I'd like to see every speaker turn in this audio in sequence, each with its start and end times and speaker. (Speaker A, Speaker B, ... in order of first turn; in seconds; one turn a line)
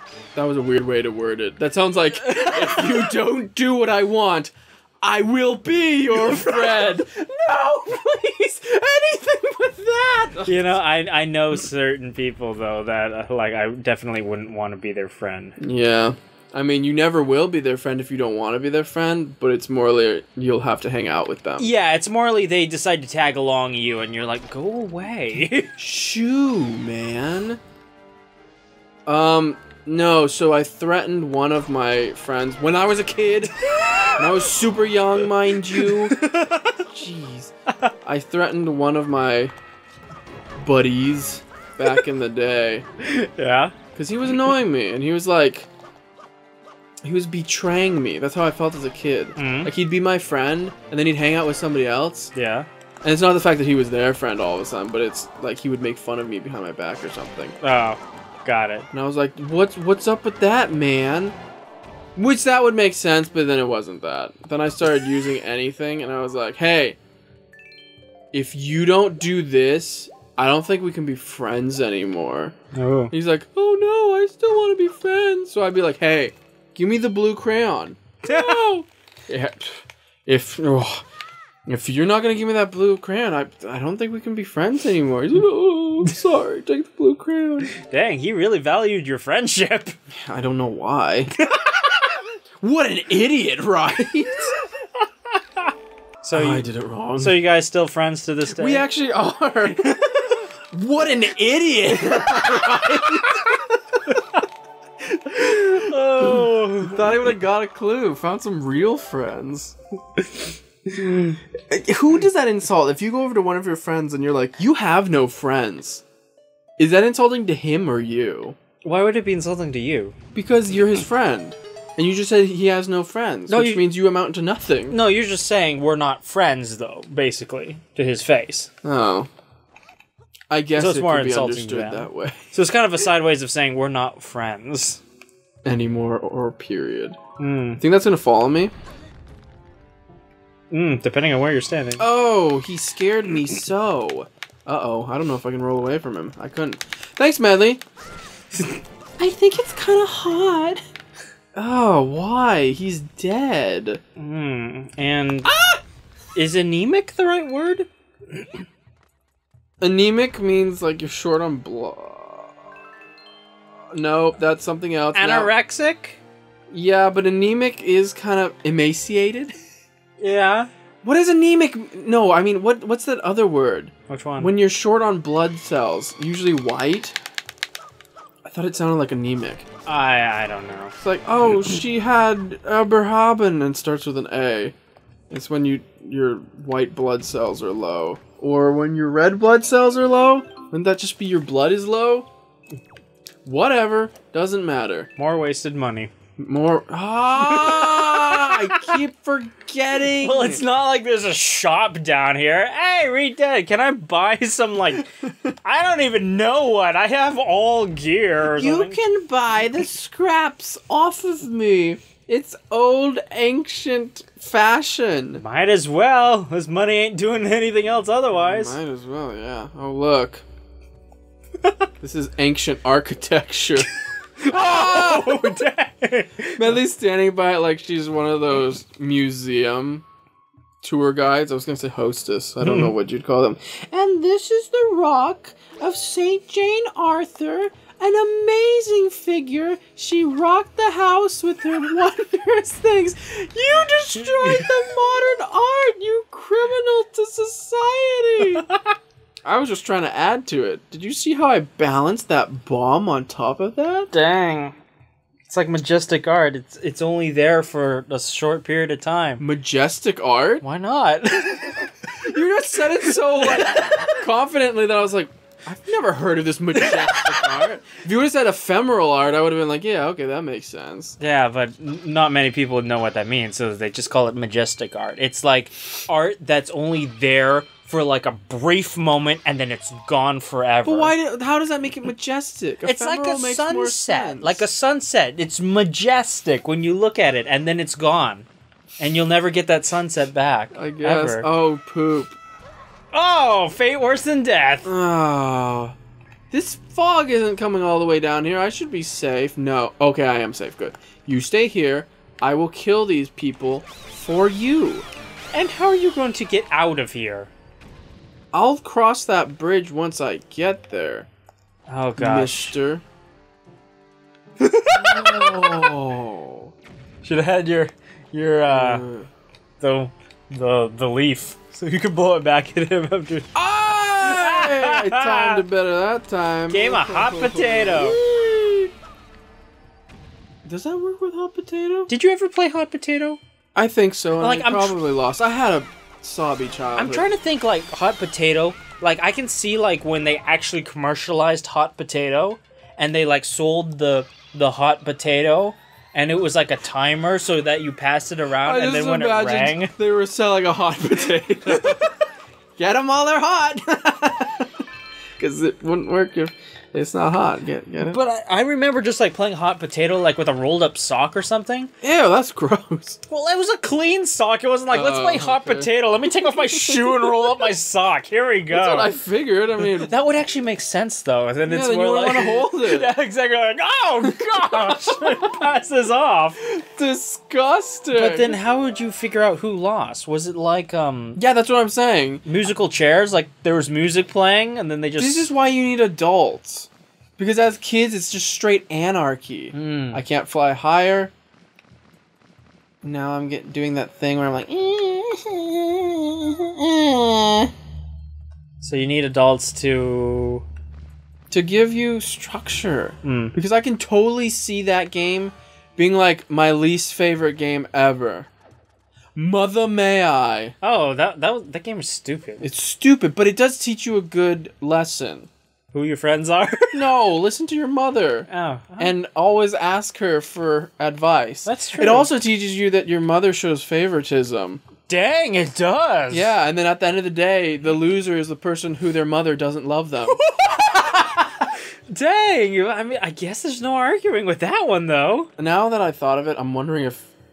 Speaker A: 0.3-10.8
Speaker B: 2.2-3.1
Speaker B: 6.2-6.9
Speaker B: 10.4-15.6
Speaker A: 15.6-21.7
Speaker B: 21.6-25.7
Speaker A: 25.8-27.6
Speaker A: 29.1-33.5
Speaker B: 33.7-34.1
Speaker A: 34.2-36.2
Speaker B: 35.7-36.8
Speaker A: 36.9-37.5
Speaker A: 38.0-39.5
Speaker A: 40.6-42.8
Speaker B: 43.0-43.7
Speaker A: 44.0-45.7
Speaker A: 47.0-52.3
Speaker B: 49.4-49.7
Speaker B: 52.3-52.7
Speaker A: 53.0-57.6
Speaker B: 57.6-58.9
Speaker A: 58.9-61.4
Speaker A: 62.2-67.0
Speaker A: 68.3-72.5
Speaker B: 72.7-73.1
Speaker A: 73.1-81.0
Speaker B: 78.2-78.6
Speaker A: 81.7-87.7
Speaker B: 87.8-90.0
Speaker A: 90.1-91.3
Speaker B: 91.5-91.9
Speaker A: 92.6-94.5
Speaker B: 96.2-96.7
Speaker A: 96.3-97.4
Speaker B: 97.2-98.9
Speaker A: 98.5-103.6
Speaker B: 100.1-100.4
Speaker B: 102.2-102.6
Speaker B: 104.1-104.4
Speaker B: 105.1-107.3
Speaker A: 106.2-109.8
Speaker B: 111.0-111.3
Speaker A: 111.2-116.0
Speaker A: 116.8-118.6
Speaker B: 118.8-120.2
Speaker A: 120.3-125.0
Speaker B: 123.5-123.8
Speaker B: 124.9-128.7
Speaker A: 128.8-129.3
Speaker A: 130.5-132.4
Speaker B: 130.8-135.0
Speaker A: 135.7-137.2
Speaker B: 137.4-137.8
Speaker A: 137.8-138.7
Speaker B: 140.7-142.1
Speaker A: 142.0-147.8
Speaker A: 149.2-150.8
Speaker A: 151.6-154.0
Speaker B: 154.2-155.5
Speaker A: 155.4-155.8
Speaker B: 156.3-157.9
Speaker A: 159.8-162.5
Speaker A: 163.9-165.5
Speaker B: 165.1-166.2
Speaker A: 166.7-169.6
Speaker B: 170.2-170.7
Speaker A: 171.0-177.2
Speaker B: 174.1-174.5
Speaker A: 178.4-179.7
Speaker B: 179.9-180.9
Speaker A: 181.0-184.8
Speaker A: 185.3-192.3
Speaker A: 193.4-195.1
Speaker B: 195.2-196.1
Speaker A: 196.4-200.6
Speaker B: 197.4-199.0
Speaker B: 200.2-205.1
Speaker B: 205.6-209.0
Speaker A: 208.5-215.4
Speaker B: 215.4-218.8
Speaker A: 218.3-220.4
Speaker A: 222.0-223.9
Speaker B: 224.4-226.8
Speaker A: 224.5-225.7
Speaker A: 226.6-230.1
Speaker A: 230.8-248.6
Speaker B: 232.6-232.9
Speaker B: 244.2-244.9
Speaker A: 249.4-254.1
Speaker B: 254.1-254.8
Speaker B: 255.5-259.4
Speaker A: 259.4-260.6
Speaker B: 260.6-262.1
Speaker A: 262.2-271.2
Speaker B: 263.1-264.2
Speaker B: 266.8-267.5
Speaker B: 271.2-281.1
Speaker A: 280.9-284.7
Speaker B: 282.8-288.5
Speaker B: 289.0-291.5
Speaker A: 290.7-292.4
Speaker B: 293.1-294.9
Speaker A: 294.8-295.9
Speaker A: 296.5-305.1
Speaker B: 305.5-307.5
Speaker A: 308.5-311.3
Speaker B: 311.9-312.8
Speaker A: 312.2-313.0
Speaker B: 314.6-315.9
Speaker A: 314.9-316.7
Speaker B: 317.2-319.0
Speaker A: 318.7-319.3
Speaker B: 319.8-323.5
Speaker A: 323.6-328.9
Speaker B: 324.2-325.6
Speaker B: 326.7-328.2
Speaker A: 330.6-332.1
Speaker B: 332.1-333.4
Speaker A: 333.8-337.3
Speaker B: 334.4-335.0
Speaker B: 337.0-349.9
Speaker A: 348.6-352.1
Speaker A: 352.8-354.7
Speaker A: 355.4-358.2
Speaker B: 358.1-361.9
Speaker A: 362.0-363.2
Speaker B: 363.3-369.1
Speaker A: 364.9-365.9
Speaker A: 366.5-367.4
Speaker A: 368.7-370.1
Speaker B: 369.9-376.6
Speaker A: 371.6-373.1
Speaker A: 374.2-375.4
Speaker A: 376.6-378.6
Speaker B: 378.1-381.4
Speaker A: 381.4-382.4
Speaker B: 382.4-385.5
Speaker A: 385.2-391.3
Speaker B: 389.7-390.2
Speaker A: 393.0-397.7
Speaker B: 398.8-400.6
Speaker A: 401.5-408.5
Speaker B: 403.2-403.6
Speaker A: 409.4-410.8
Speaker B: 410.8-412.7
Speaker A: 412.6-415.5
Speaker B: 415.9-417.0
Speaker A: 416.9-424.8
Speaker B: 418.5-419.1
Speaker B: 421.6-422.3
Speaker B: 425.1-426.5
Speaker A: 426.3-430.4
Speaker B: 430.3-435.5
Speaker A: 435.6-437.3